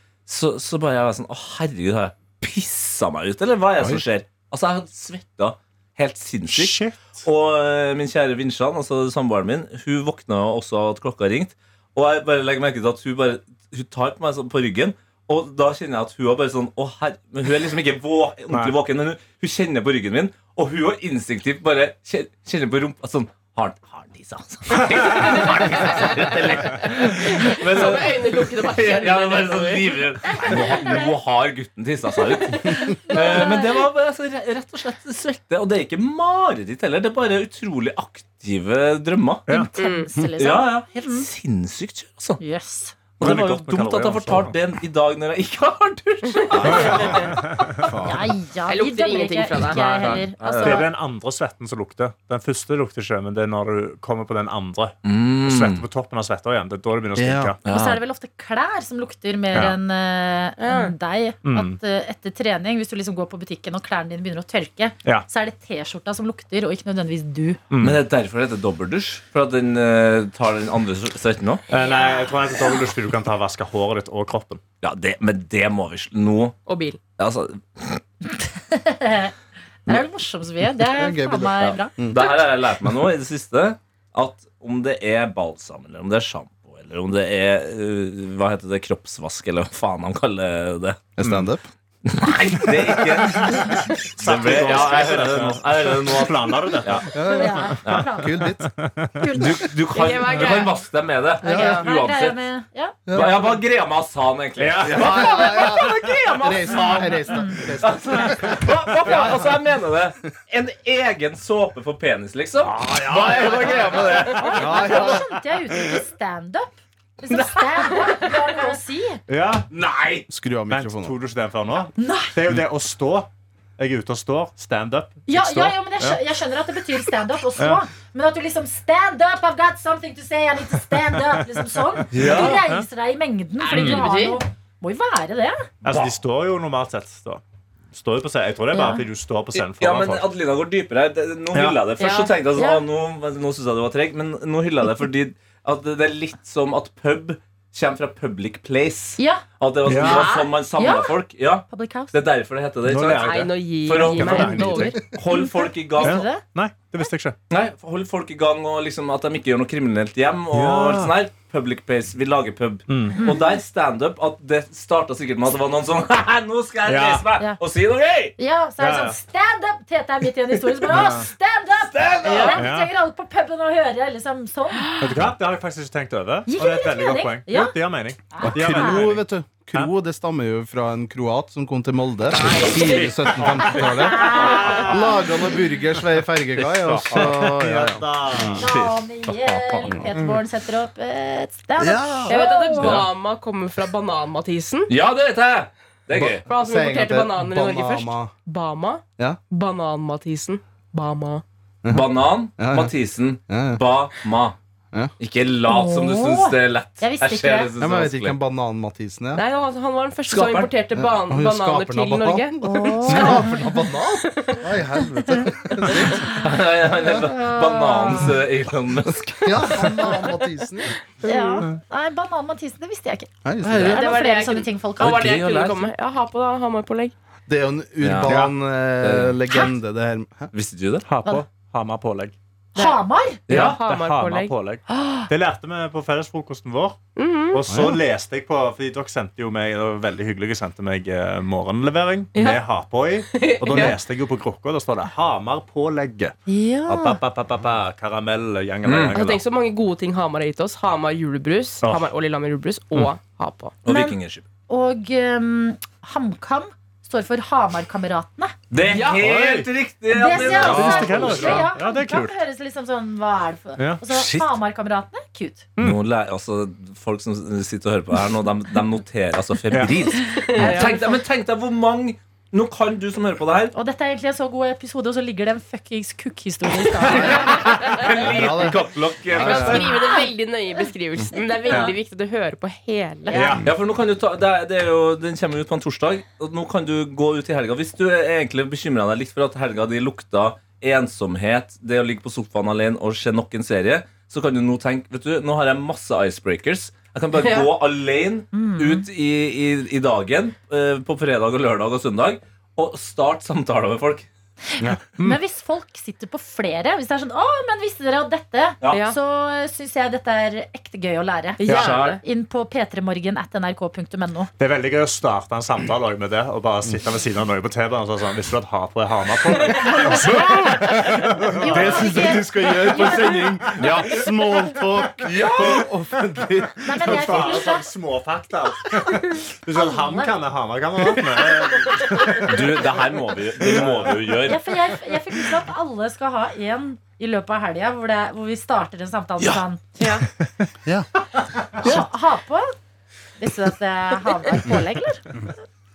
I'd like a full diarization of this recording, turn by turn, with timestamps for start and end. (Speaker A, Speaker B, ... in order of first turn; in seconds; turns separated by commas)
Speaker A: 0.2-39.5, Speaker B: 6.5-7.2, Speaker C: 25.4-30.0, Speaker D: 30.3-31.1, Speaker C: 32.6-33.2, Speaker D: 33.1-33.8, Speaker D: 39.5-41.3, Speaker C: 39.8-40.1, Speaker A: 40.4-42.4, Speaker D: 42.4-42.9, Speaker A: 43.2-47.9, Speaker B: 43.2-44.5, Speaker C: 46.4-47.4, Speaker B: 46.6-47.9, Speaker E: 46.7-48.3, Speaker D: 48.0-50.9, Speaker C: 48.7-50.2, Speaker A: 49.8-50.9, Speaker B: 49.9-57.6, Speaker A: 55.0-55.8, Speaker E: 57.1-57.5, Speaker A: 57.6-58.0, Speaker D: 57.7-67.6, Speaker C: 60.6-60.9, Speaker B: 61.4-61.8, Speaker B: 67.7-68.0, Speaker A: 67.8-71.6, Speaker B: 71.7-74.6, Speaker D: 71.7-72.3, Speaker A: 74.8-76.6, Speaker C: 76.7-77.0, Speaker A: 77.2-78.0, Speaker D: 78.6-79.3, Speaker D: 79.9-82.4, Speaker E: 80.8-82.2, Speaker A: 82.0-91.1, Speaker E: 91.2-91.6, Speaker B: 91.2-91.5, Speaker A: 92.0-97.1, Speaker B: 92.6-97.7, Speaker E: 97.1-98.7, Speaker D: 97.2-98.5, Speaker B: 98.6-99.3, Speaker D: 99.2-99.5, Speaker A: 99.3-102.4, Speaker C: 99.9-100.8, Speaker C: 101.4-101.9, Speaker D: 101.4-103.3, Speaker E: 101.5-101.8, Speaker E: 103.1-103.4, Speaker A: 103.1-107.1, Speaker B: 104.6-106.4, Speaker E: 104.8-109.5, Speaker D: 106.8-107.6, Speaker A: 107.8-114.9, Speaker B: 109.1-109.3, Speaker B: 112.6-114.8, Speaker D: 113.5-119.2, Speaker E: 114.5-115.2, Speaker B: 119.3-119.7, Speaker A: 119.7-120.3, Speaker E: 120.3-121.2, Speaker B: 120.7-126.2, Speaker D: 122.0-122.4, Speaker D: 125.3-135.7, Speaker B: 127.6-127.8, Speaker A: 132.1-132.6, Speaker B: 132.1-132.8, Speaker C: 133.6-134.4, Speaker B: 133.7-134.0, Speaker B: 135.8-140.3, Speaker A: 135.9-136.1, Speaker D: 138.7-139.1, Speaker A: 139.5-156.2, Speaker B: 141.5-141.8, Speaker C: 142.0-142.3, Speaker D: 142.5-142.8, Speaker D: 149.2-151.2, Speaker B: 149.8-150.3, Speaker D: 151.7-152.2, Speaker B: 152.8-155.0, Speaker C: 153.1-155.0, Speaker D: 155.3-156.4, Speaker B: 156.0-157.3, Speaker A: 157.5-168.3, Speaker B: 160.5-161.1, Speaker B: 162.9-163.2, Speaker D: 163.2-163.6, Speaker B: 166.8-167.2, Speaker D: 168.4-175.2, Speaker B: 168.8-169.2, Speaker B: 170.9-171.3, Speaker A: 170.9-171.2, Speaker A: 171.9-172.7, Speaker B: 172.5-172.9, Speaker B: 175.0-179.9, Speaker D: 176.5-177.7, Speaker D: 178.3-179.0, Speaker E: 178.4-188.7, Speaker C: 182.3-183.1, Speaker B: 182.8-185.3, Speaker D: 183.8-185.1, Speaker C: 184.3-184.9, Speaker A: 186.6-187.4, Speaker B: 186.9-188.9, Speaker D: 188.5-193.1, Speaker A: 189.3-189.8, Speaker E: 189.8-190.1, Speaker E: 191.8-192.4, Speaker C: 192.3-194.9, Speaker A: 192.8-193.1, Speaker A: 194.9-196.4, Speaker E: 196.1-198.3, Speaker C: 196.4-201.4, Speaker E: 201.8-202.9, Speaker A: 201.9-204.6, Speaker E: 203.5-203.8, Speaker A: 205.2-208.3, Speaker D: 205.7-207.7, Speaker E: 207.8-209.4, Speaker C: 209.3-213.5, Speaker A: 210.3-210.7, Speaker E: 210.9-216.4, Speaker D: 212.6-213.6, Speaker C: 214.3-214.6, Speaker A: 216.3-219.9, Speaker D: 217.9-218.3, Speaker C: 217.9-218.2, Speaker E: 219.4-220.9, Speaker C: 219.7-220.4, Speaker C: 221.2-221.7, Speaker D: 221.2-223.3, Speaker E: 223.4-224.0, Speaker A: 223.6-224.0, Speaker C: 223.8-227.1, Speaker D: 223.8-225.4, Speaker A: 225.0-225.9, Speaker E: 227.5-230.5, Speaker A: 228.0-228.4, Speaker B: 228.2-228.5, Speaker A: 229.0-229.4, Speaker A: 230.5-231.1, Speaker B: 231.0-232.3, Speaker D: 232.7-233.4, Speaker C: 232.7-234.5, Speaker A: 233.5-233.8, Speaker B: 233.5-237.0, Speaker D: 234.9-235.3, Speaker C: 237.2-237.6, Speaker B: 237.5-246.3, Speaker E: 237.7-238.0, Speaker C: 242.3-242.6, Speaker C: 243.3-244.0, Speaker D: 246.5-247.2, Speaker B: 246.9-249.4, Speaker A: 248.8-249.2, Speaker C: 249.1-253.7, Speaker B: 251.8-252.1, Speaker A: 253.8-254.4, Speaker D: 253.9-254.2, Speaker D: 254.7-258.5, Speaker A: 258.7-261.7, Speaker C: 258.9-259.2, Speaker B: 258.9-259.7, Speaker D: 260.1-265.6, Speaker B: 260.3-262.4, Speaker A: 264.1-264.5, Speaker A: 265.8-273.7, Speaker C: 270.3-271.0, Speaker D: 270.3-271.2, Speaker D: 273.7-277.6, Speaker A: 277.1-279.9, Speaker E: 278.1-279.8, Speaker C: 279.3-283.6, Speaker D: 279.7-280.3, Speaker D: 283.3-283.6, Speaker B: 283.3-283.7, Speaker A: 283.6-304.3, Speaker C: 297.3-297.7, Speaker D: 298.5-299.1, Speaker B: 304.9-305.4, Speaker D: 305.0-314.5, Speaker C: 308.9-309.2, Speaker C: 311.6-312.2, Speaker B: 311.7-312.0, Speaker A: 311.7-312.2, Speaker B: 314.6-322.4, Speaker D: 320.0-320.9, Speaker E: 320.2-327.6, Speaker D: 321.6-323.6, Speaker B: 323.8-324.1, Speaker A: 323.8-324.2, Speaker A: 325.3-325.9, Speaker D: 326.8-327.9, Speaker B: 327.0-333.0, Speaker D: 329.7-330.4, Speaker A: 332.4-334.7, Speaker B: 333.6-334.5, Speaker D: 334.4-339.8, Speaker C: 340.0-340.3, Speaker D: 341.8-342.7, Speaker D: 343.4-345.3